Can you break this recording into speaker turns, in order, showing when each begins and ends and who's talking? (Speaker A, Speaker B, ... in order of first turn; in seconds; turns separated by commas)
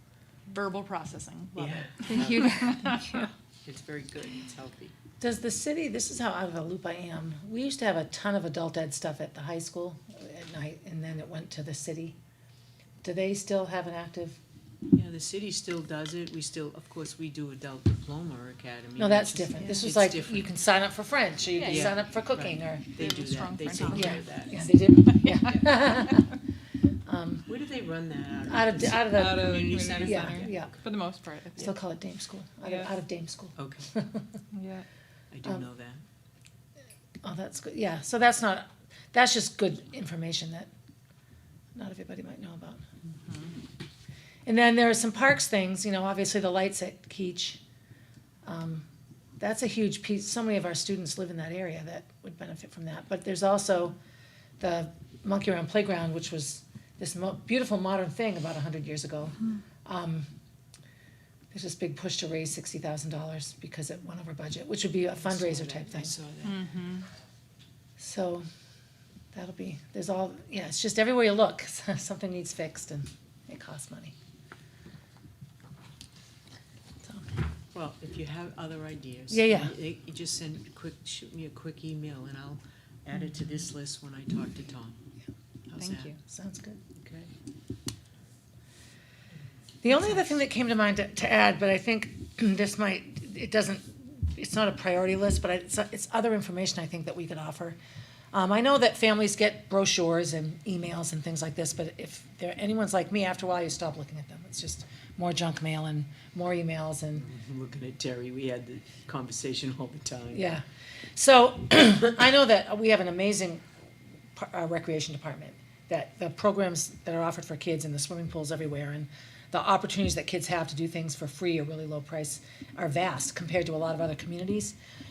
Speaker A: 0.5-3.1, Speaker B: 1.5-2.8, Speaker C: 2.0-3.3, Speaker B: 3.6-4.9, Speaker D: 5.2-12.2, Speaker D: 13.0-14.4, Speaker B: 14.9-20.5, Speaker D: 19.0-22.8, Speaker B: 21.6-24.6, Speaker A: 23.0-24.2, Speaker C: 23.0-24.1, Speaker D: 23.9-26.3, Speaker D: 27.1-27.4, Speaker B: 27.4-30.9, Speaker D: 28.5-30.7, Speaker A: 29.1-31.7, Speaker D: 31.6-34.3, Speaker A: 32.6-32.9, Speaker B: 33.5-33.9, Speaker A: 34.5-34.8, Speaker B: 35.3-36.0, Speaker D: 37.2-40.7, Speaker D: 41.7-42.8, Speaker A: 43.2-43.5, Speaker D: 44.5-47.6, Speaker D: 48.4-48.8, Speaker D: 49.4-54.0, Speaker D: 54.6-60.3, Speaker D: 61.5-66.1, Speaker B: 65.1-66.7, Speaker A: 66.4-67.1, Speaker D: 68.0-68.5, Speaker D: 69.3-74.1, Speaker B: 77.7-85.0, Speaker D: 79.3-79.7, Speaker B: 85.7-86.2, Speaker C: 85.8-86.0, Speaker D: 86.2-86.8, Speaker B: 87.0-87.3, Speaker D: 89.8-97.8, Speaker D: 98.3-107.2, Speaker B: 107.2-110.5, Speaker D: 110.3-110.6, Speaker D: 111.2-113.6, Speaker D: 114.3-124.8